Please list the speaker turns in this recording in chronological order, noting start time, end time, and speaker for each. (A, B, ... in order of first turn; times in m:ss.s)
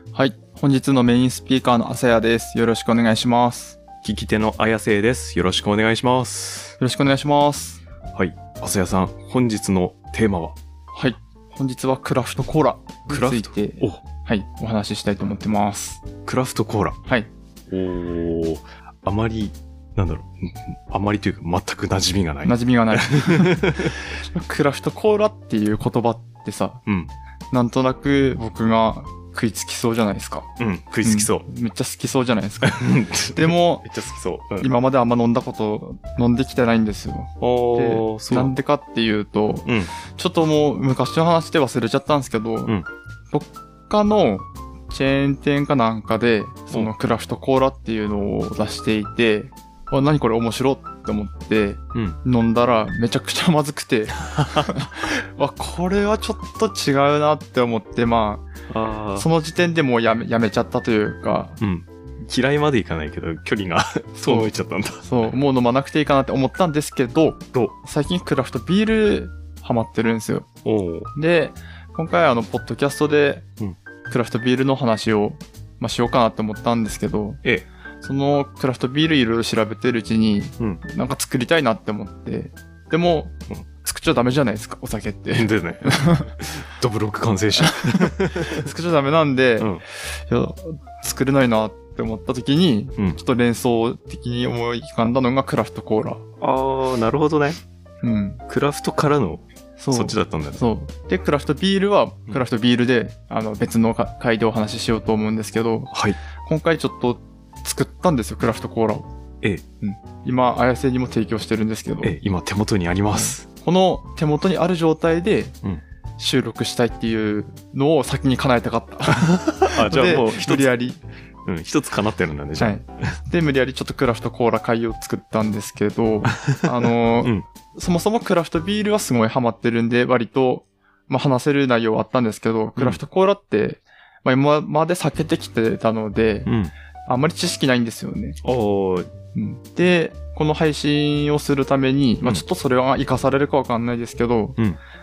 0:00.1-0:03.8 A
0:04.0-0:06.8 B
0:06.8-0:07.8 A
0:08.1-0:10.6 B
0:10.9-0:16.0 A
0:13.1-0:14.0 B
0:16.2-0:17.0 B
0:17.7-0:24.1 B
0:22.4-0:26.8 A
0:26.8-0:27.1 B
0:27.5-0:30.5 A
0:30.6-0:31.4 B
0:31.0-0:33.8 A
0:32.6-0:34.7 B
0:34.6-0:42.8 A
0:37.4-0:38.5 B
0:39.7-0:39.9 B
0:43.3-0:58.5 A
0:54.2-0:54.7 B
0:58.7-0:59.3 B
0:59.2-1:01.6 A
1:01.6-1:05.1 B
1:04.2-1:10.5 A
1:10.6-1:11.1 B
1:11.1-1:13.4 A
1:14.1-1:17.4 A
1:18.0-1:26.3 A
1:25.3-1:28.6 B
1:27.6-1:36.2 A
1:36.4-1:37.6 B
1:38.0-1:38.4 A
1:38.5-1:40.6 B
1:39.8-1:49.1 A
1:45.9-1:46.2 B
1:49.8-1:52.2 A
1:52.0-1:53.4 B
1:53.1-1:55.6 A
1:56.2-2:01.0 A
1:59.2-2:00.8 B
2:01.4-2:03.1 B
2:02.6-2:16.5 A
2:07.2-2:07.4 B
2:16.4-2:16.7 B
2:17.0-2:18.4 A
2:18.4-2:19.1 B
2:19.3-2:24.6 A